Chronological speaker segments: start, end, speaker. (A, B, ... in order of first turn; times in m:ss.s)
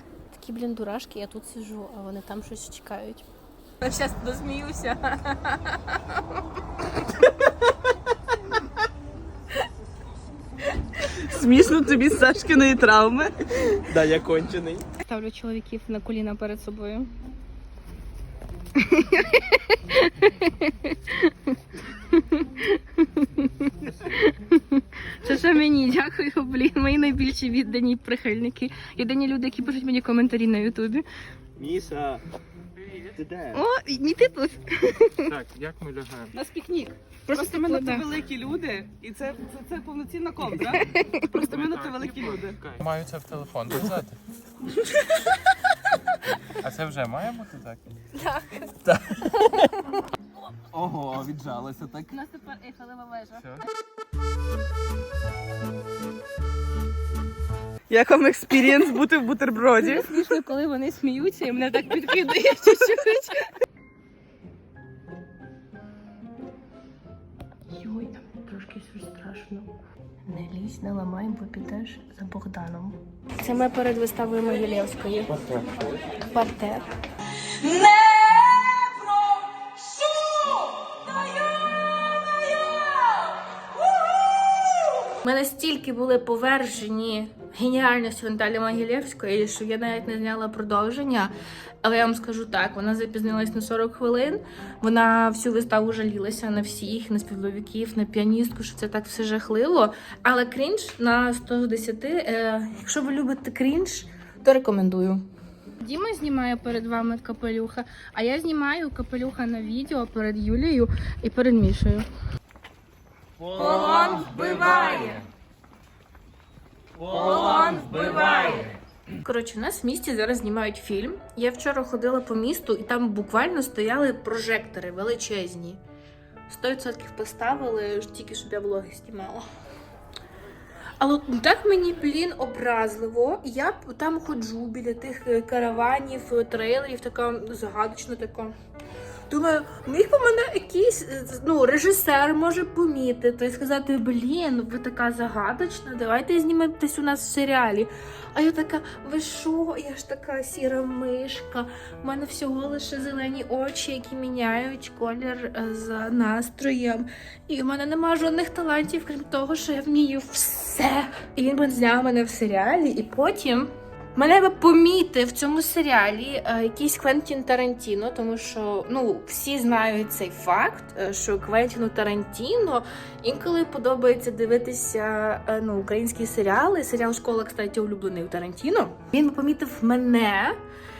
0:00.3-0:03.2 A
0:03.8-0:06.4 A
0:11.2-0:13.3 B
0:13.9-0:14.8 C
0:15.0-0:17.1 A
0:18.7-0:21.3 A
0:22.0-0:31.0 A
0:31.6-0:32.2 C
0:33.1-0:33.6 C
0:33.5-0:35.3 A
0:35.2-0:36.3 D
0:36.3-0:38.1 A
0:37.3-0:42.6 B
0:40.6-0:41.3 A
0:41.4-0:44.2 D
0:46.5-0:47.8 D
0:48.1-0:50.0 A
0:48.9-0:49.4 D
0:50.7-0:52.1 C
0:52.1-0:53.6 A
0:57.9-1:00.1 B
0:59.8-1:03.5 A
1:07.7-1:09.7 A
1:10.2-1:15.6 A
1:16.2-1:16.8 A
1:17.4-1:23.4 A
1:25.0-1:45.2 A
1:45.8-1:52.0 A
1:53.5-1:55.2 A
1:57.0-2:05.8 A
2:06.5-2:09.4 A
2:11.0-2:18.5 A
2:19.3-3:00.6 A